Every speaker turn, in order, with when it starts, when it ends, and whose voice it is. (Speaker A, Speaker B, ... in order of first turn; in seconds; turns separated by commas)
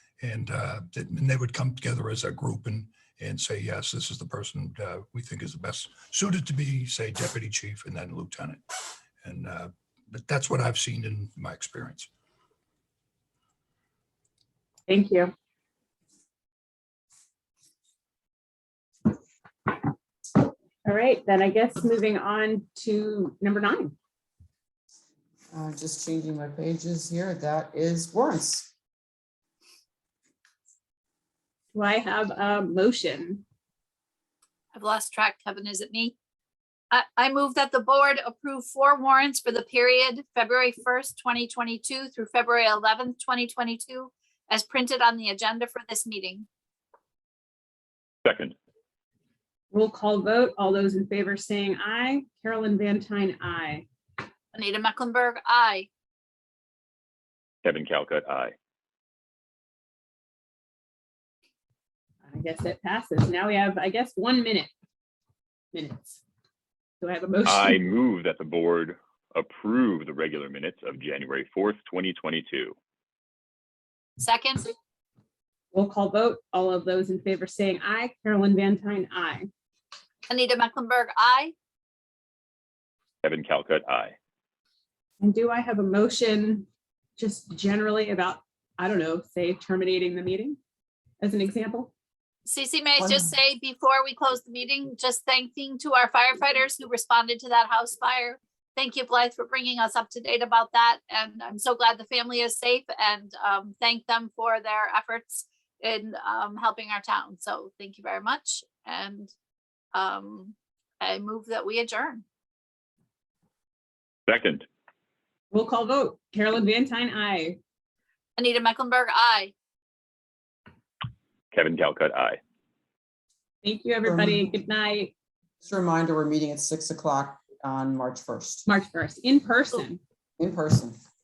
Speaker A: 0.2-8.6, Speaker A: 9.2-12.1, Speaker B: 14.9-15.3, Speaker B: 20.9-23.9, Speaker C: 25.5-28.7, Speaker B: 31.7-33.4, Speaker D: 34.7-36.1, Speaker D: 36.9-46.5, Speaker E: 48.2-48.5, Speaker B: 49.7-53.9, Speaker D: 54.5-55.9, Speaker E: 57.6-58.5, Speaker B: 62.2-64.7, Speaker B: 65.7-66.2, Speaker B: 67.0-67.8, Speaker E: 67.4-72.8, Speaker D: 74.2-74.7, Speaker B: 75.7-79.5, Speaker D: 80.3-81.5, Speaker E: 83.2-84.2, Speaker B: 85.2-86.7, Speaker B: 87.2-90.6, Speaker B: 91.2-91.9, Speaker D: 92.5-109.3, Speaker C: 93.0-93.3, Speaker D: 109.9-112.2, Speaker E: 114.3-114.7, Speaker B: 115.5-117.6, Speaker D: 118.4-119.5, Speaker E: 121.5-122.4, Speaker B: 123.6-125.1, Speaker C: 124.0-124.5, Speaker C: 125.6-128.7, Speaker B: 128.7-130.0, Speaker C: 130.4-131.0